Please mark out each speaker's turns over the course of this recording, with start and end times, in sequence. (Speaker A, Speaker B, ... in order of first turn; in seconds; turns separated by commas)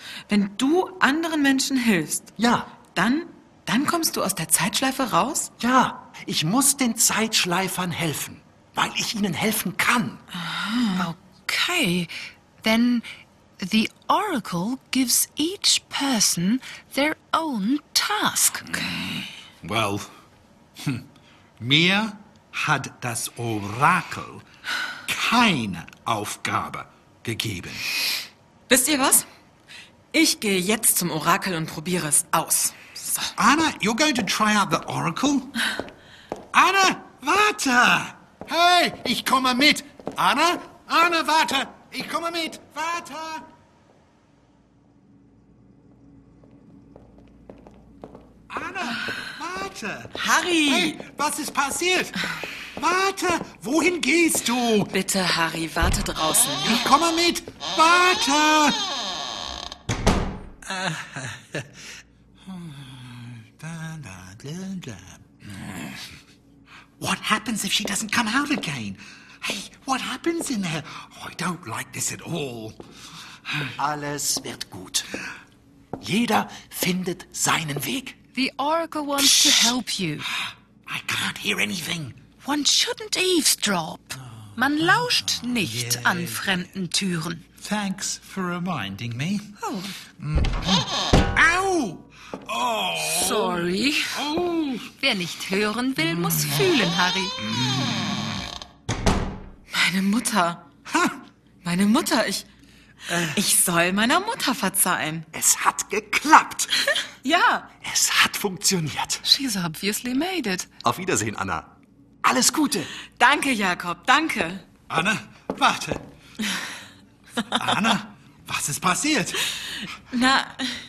Speaker A: 0.3-2.3, Speaker B: 2.4-2.7, Speaker A: 2.9-5.5, Speaker B: 5.6-10.2, Speaker A: 10.4-11.1, Speaker C: 10.9-13.1, Speaker C: 13.6-18.9, Speaker D: 18.9-20.1, Speaker D: 20.8-21.1, Speaker D: 21.6-24.4, Speaker D: 25.1-27.9, Speaker A: 28.7-29.2, Speaker A: 30.1-33.3, Speaker D: 33.4-35.6, Speaker D: 36.5-43.5, Speaker D: 48.5-50.1, Speaker A: 50.1-51.0, Speaker D: 50.7-52.2, Speaker D: 52.8-54.9, Speaker A: 54.9-56.8, Speaker D: 56.6-58.8, Speaker D: 60.7-61.9, Speaker D: 62.5-65.9, Speaker D: 67.0-72.8, Speaker B: 73.8-75.1, Speaker B: 76.0-78.2, Speaker C: 78.3-80.3, Speaker D: 79.2-79.8, Speaker D: 80.9-82.2, Speaker C: 82.4-87.4, Speaker D: 84.6-86.7, Speaker D: 87.6-89.5, Speaker C: 89.6-90.0, Speaker D: 90.2-94.9, Speaker C: 93.0-94.2, Speaker C: 95.0-97.4, Speaker D: 97.5-98.2, Speaker A: 99.7-100.6, Speaker A: 101.6-102.5, Speaker D: 103.1-103.4, Speaker A: 103.2-105.3, Speaker B: 105.3-106.7, Speaker A: 107.2-107.7, Speaker B: 107.8-109.2, Speaker C: 109.2-110.7, Speaker B: 110.8-111.7, Speaker B: 112.2-112.9, Speaker A: 113.2-114.6, Speaker D: 114.9-116.0, Speaker D: 117.5-119.5, Speaker A: 120.1-120.8